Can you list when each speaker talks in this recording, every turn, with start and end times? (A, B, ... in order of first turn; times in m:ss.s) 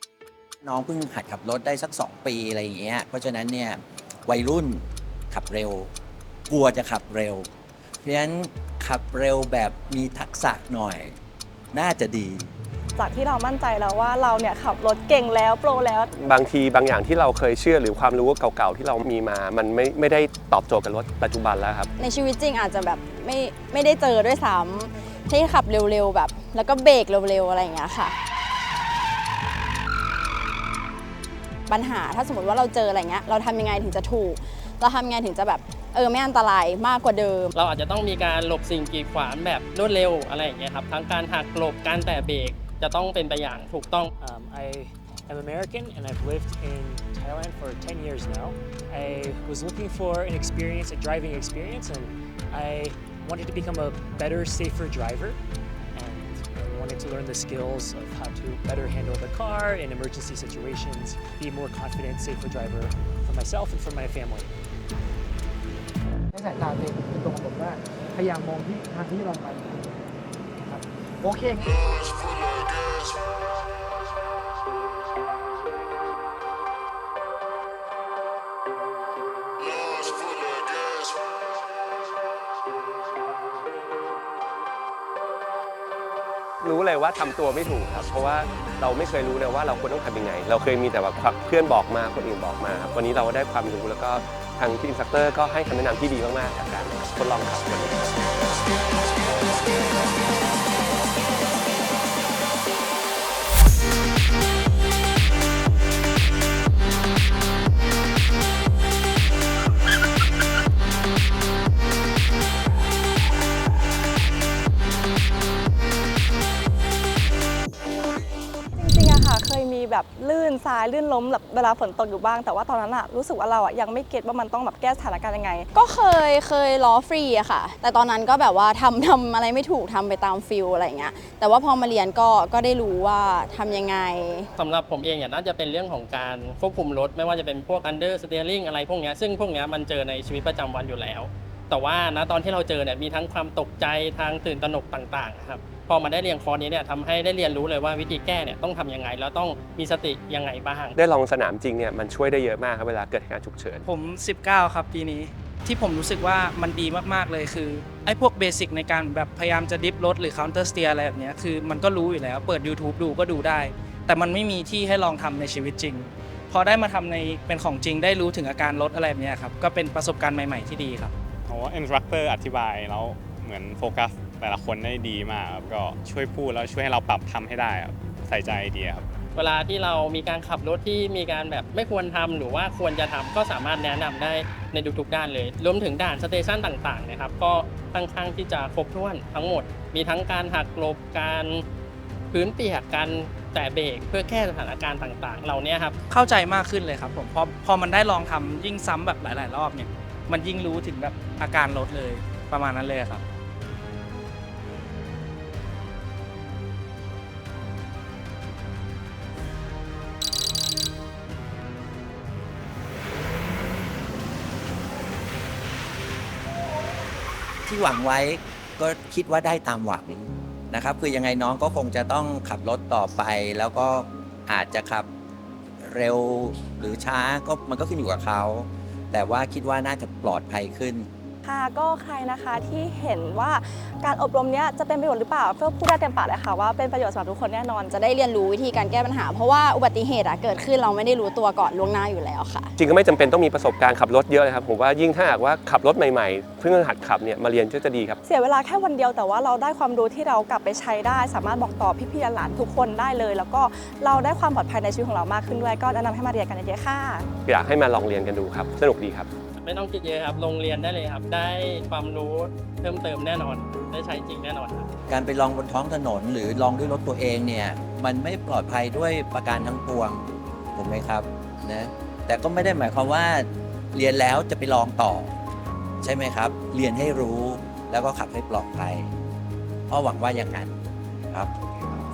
0:00.6-0:05.9 A
0:06.5-0:07.5 A
0:08.0-0:11.1 A
0:11.7-0:12.5 A
0:13.0-0:16.1 B
0:16.1-0:21.9 C
0:22.0-0:28.1 D
0:31.7-0:37.5 D
0:37.6-0:44.1 E
0:44.2-0:55.4 F
0:55.9-1:04.5 F
1:06.3-1:09.9 G
1:10.6-1:11.6 G
1:26.6-1:38.0 C
1:58.8-2:05.7 B
2:05.7-2:14.5 D
2:14.6-2:31.0 E
2:31.0-2:33.8 C
2:33.8-2:51.1 H
2:51.5-2:59.1 I
2:59.3-3:11.6 E
3:12.3-3:16.0 E
3:16.1-3:23.2 H
3:37.6-3:45.1 A
3:45.8-3:51.1 A
3:51.4-3:57.9 B
3:57.9-4:02.7 D
4:02.8-4:08.2 C
4:08.2-4:17.3 B
4:17.4-4:19.3 C
4:19.6-4:24.9 E
4:25.1-4:35.3 A
4:36.0-4:39.1 A
4:39.9-4:40.7 A